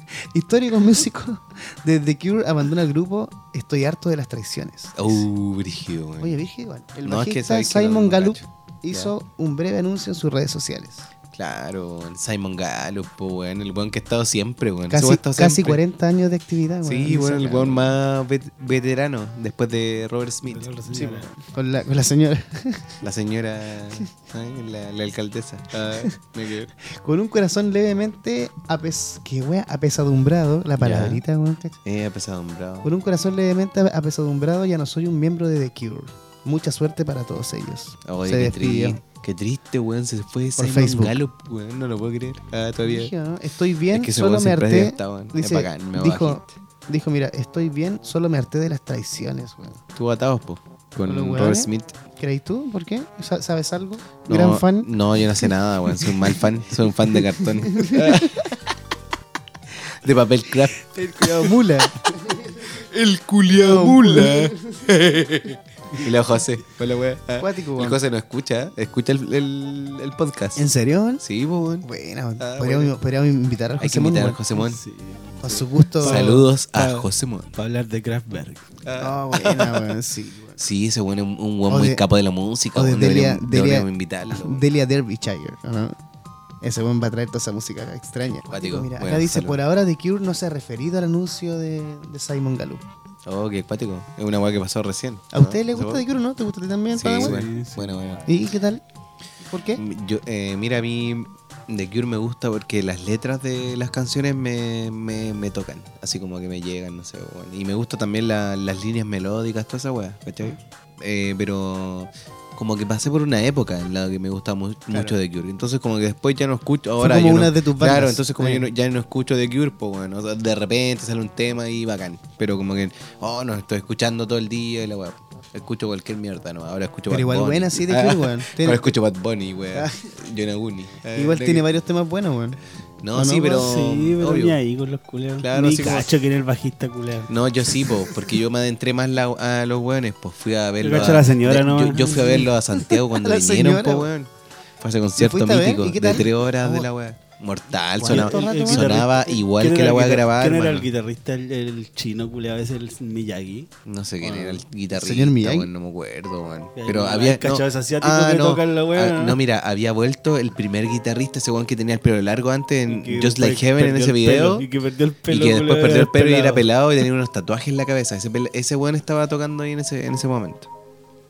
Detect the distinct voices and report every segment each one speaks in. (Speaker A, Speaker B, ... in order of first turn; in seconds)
Speaker A: 0.1-5.2, 6.2-11.1, 14.9-17.9, 20.9-23.0, 26.8-31.8, 32.8-39.0, 40.5-41.2, 42.8-49.8, 51.0-54.9, 57.7-58.3, 61.0-62.6, 63.5-64.6, 67.4-68.0, 70.6-71.2, 71.8-74.4, 75.4-76.3, 79.0-80.6, 81.7-82.0, 82.8-86.0, 86.6-92.8, 95.3-97.4, 98.2-98.8, 99.5-99.8, 114.9-115.2, 117.0-118.6, 127.1-128.9, 129.7-130.1, 131.1-132.6, 133.1-133.7, 142.9-144.1, 145.2-146.9, 148.0-149.0, 154.9-155.7
Speaker B: 5.0-6.4, 7.0-9.1, 11.3-15.8, 16.8-20.7, 23.0-26.7, 30.8-31.2, 31.8-32.9, 38.0-43.1, 43.9-46.5, 50.0-52.0, 54.3-58.5, 60.0-61.5, 62.7-70.6, 71.2-71.9, 72.4-72.9, 73.8-74.8, 76.0-77.5, 78.8-79.9, 80.6-84.6, 88.5-89.6, 93.2-96.0, 96.9-98.2, 99.8-131.7, 133.0-134.6, 135.4-136.2, 137.3-150.9, 153.8-164.7, 165.3-170.7
Speaker C: 20.5-21.3, 74.5-78.7, 97.2-98.0, 133.6-137.3, 140.8-142.5, 148.0-153.7, 154.3-154.5, 156.8-159.4, 162.9-166.6